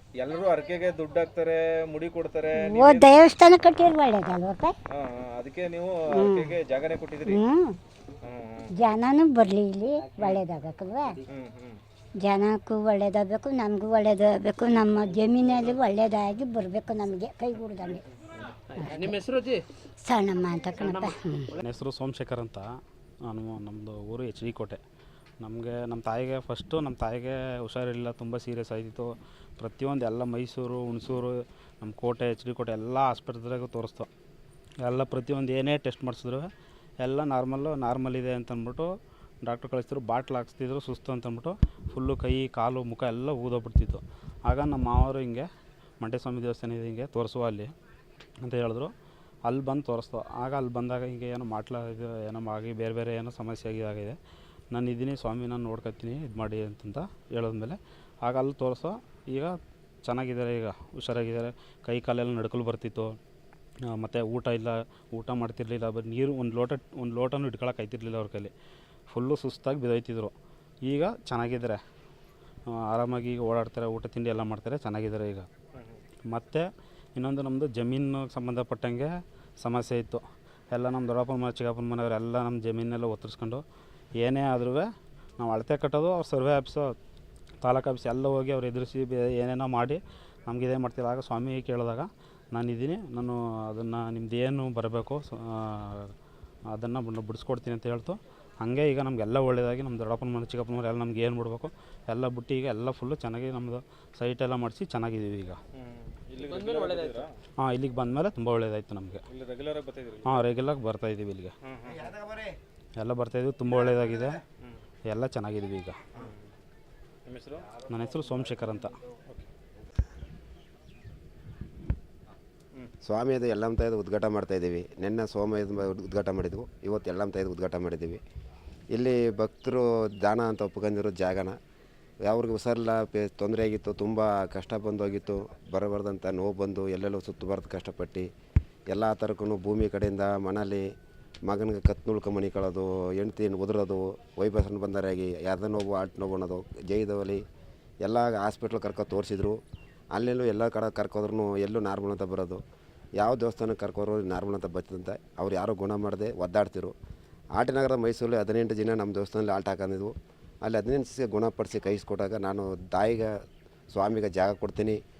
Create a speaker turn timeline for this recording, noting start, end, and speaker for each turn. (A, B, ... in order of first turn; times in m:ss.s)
0:00.2-0:03.2 A
0:02.6-0:04.7 B
0:04.9-0:07.4 A
0:06.1-0:06.5 B
0:07.3-0:07.8 B
0:08.2-0:08.8 A
0:08.7-0:11.2 B
0:10.2-0:10.4 A
0:11.3-0:11.8 A
0:12.2-0:18.0 B
0:18.7-0:19.6 C
0:20.0-0:21.5 B
0:20.8-0:21.6 C
0:21.6-0:22.6 D
0:23.2-0:24.8 D
0:25.4-0:34.1 D
0:34.8-0:36.5 D
0:37.0-0:38.9 D
0:39.4-0:45.5 D
0:46.0-0:47.7 D
0:48.4-0:48.9 D
0:49.4-0:54.2 D
0:54.7-0:59.6 D
1:00.1-1:03.2 D
1:03.9-1:08.5 D
1:09.1-1:10.3 D
1:10.8-1:11.8 D
1:12.9-1:15.5 D
1:15.8-1:16.0 A
1:16.3-1:23.6 D
1:24.2-1:24.9 D
1:25.4-1:26.9 D
1:27.6-1:36.1 D
1:36.7-1:45.6 D
1:45.7-1:47.3 A
1:46.5-1:47.2 C
1:47.6-1:49.2 D
1:49.3-1:50.4 A
1:50.2-1:51.5 D
1:51.6-1:52.2 A
1:53.0-1:54.4 D
1:55.1-1:56.0 D
1:57.2-1:57.7 A
1:57.9-1:59.0 D
2:03.0-2:08.2 E
2:08.9-2:11.6 E
2:12.2-2:18.3 E
2:18.9-2:20.8 E
2:21.4-2:27.4 E
2:28.0-2:29.6 E
2:30.1-2:32.6 E
2:33.2-2:36.9 E
2:37.5-2:43.3 E
2:43.9-2:45.0 E